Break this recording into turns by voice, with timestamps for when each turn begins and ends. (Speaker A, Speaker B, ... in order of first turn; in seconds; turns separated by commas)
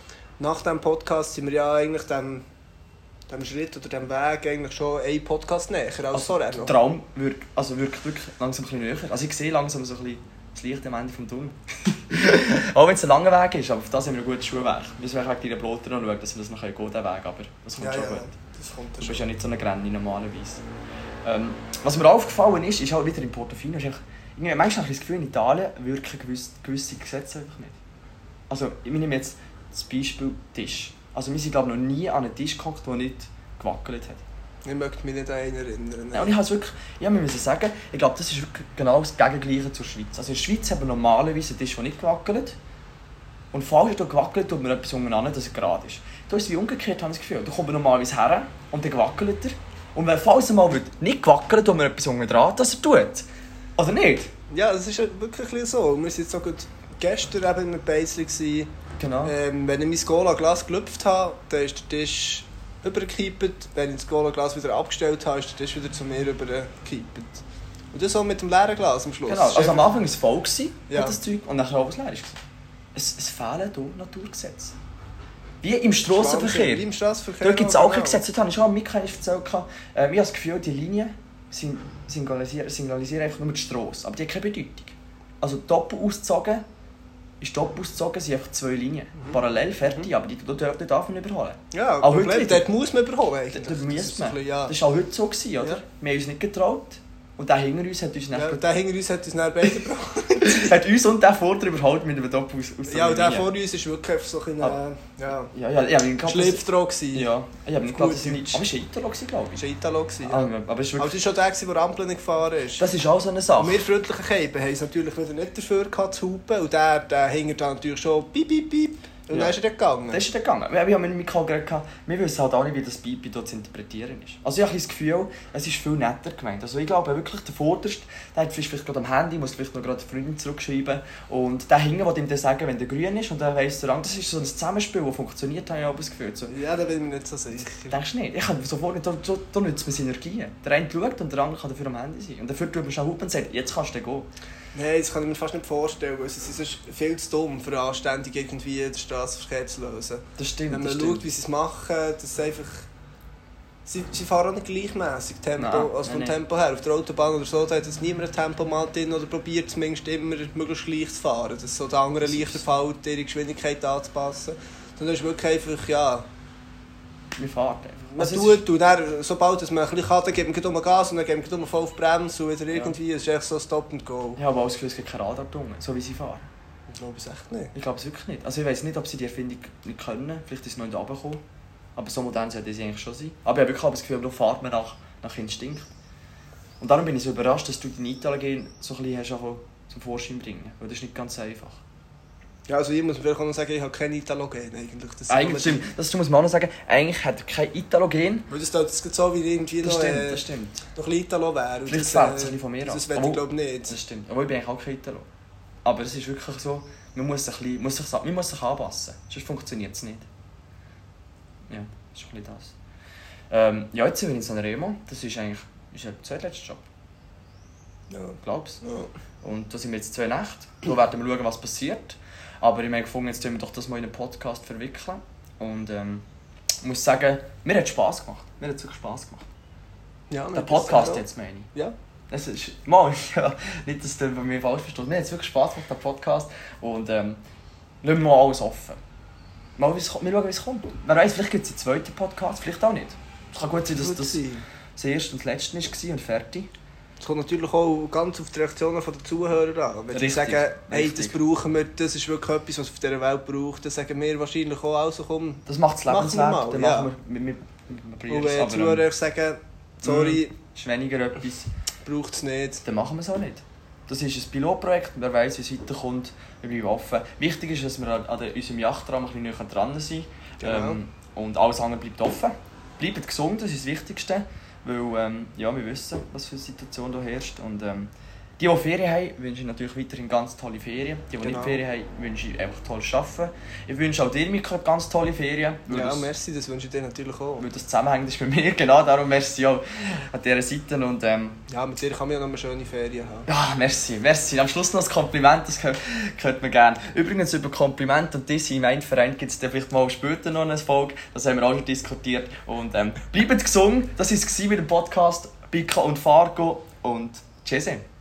Speaker A: 0.4-2.5, Speaker A: 3.3-6.8, Speaker B: 6.1-18.4, Speaker A: 17.8-19.2, Speaker B: 19.0-20.6, Speaker B: 21.2-27.8, Speaker B: 28.5-34.2, Speaker A: 34.6-36.4, Speaker B: 36.1-42.6, Speaker B: 43.5-54.3, Speaker A: 54.5-58.7, Speaker B: 59.0-59.3, Speaker A: 59.2-69.9, Speaker B: 69.3-72.4, Speaker A: 70.9-71.2, Speaker B: 73.0-74.8, Speaker B: 75.6-76.9, Speaker A: 76.1-78.2, Speaker B: 77.4-86.6, Speaker B: 87.4-92.7, Speaker A: 91.7-94.8, Speaker B: 93.5-98.6, Speaker A: 98.3-100.8, Speaker B: 100.4-103.5, Speaker A: 102.9-105.5, Speaker B: 105.5-109.6, Speaker A: 106.2-107.3, Speaker A: 107.8-108.7, Speaker A: 109.6-112.9, Speaker B: 110.2-111.2, Speaker B: 112.8-113.8, Speaker A: 113.5-120.2, Speaker B: 120.1-136.5, Speaker A: 136.5-138.0, Speaker B: 137.9-144.3, Speaker A: 144.7-152.9, Speaker B: 150.4-151.3, Speaker A: 153.9-166.3, Speaker B: 155.6-156.4, Speaker B: 162.2-162.6, Speaker B: 167.4-168.6, Speaker A: 168.1-174.4, Speaker B: 174.4-176.5, Speaker A: 176.9-177.7, Speaker B: 177.7-181.4, Speaker B: 182.0-185.9, Speaker B: 186.8-191.8, Speaker A: 192.7-195.9, Speaker B: 195.3-198.5, Speaker A: 198.5-204.0, Speaker B: 199.8-200.8, Speaker B: 201.9-205.3, Speaker B: 205.8-210.3, Speaker B: 211.7-212.8, Speaker B: 213.5-216.8, Speaker A: 218.1-219.1, Speaker B: 218.4-218.8, Speaker B: 219.4-226.2, Speaker B: 226.8-229.5, Speaker A: 230.3-231.9, Speaker B: 230.5-231.7, Speaker B: 232.3-237.4, Speaker B: 238.0-239.0, Speaker B: 239.8-244.4, Speaker A: 243.9-244.7, Speaker B: 245.0-246.7, Speaker A: 247.2-257.1, Speaker B: 250.1-251.4, Speaker B: 255.7-259.1, Speaker A: 258.3-260.6, Speaker B: 260.0-261.7, Speaker A: 262.1-262.8, Speaker B: 262.8-286.3, Speaker A: 270.6-271.0, Speaker A: 281.4-281.8, Speaker A: 285.9-287.7, Speaker B: 287.6-291.6, Speaker A: 291.7-293.5, Speaker B: 293.5-308.0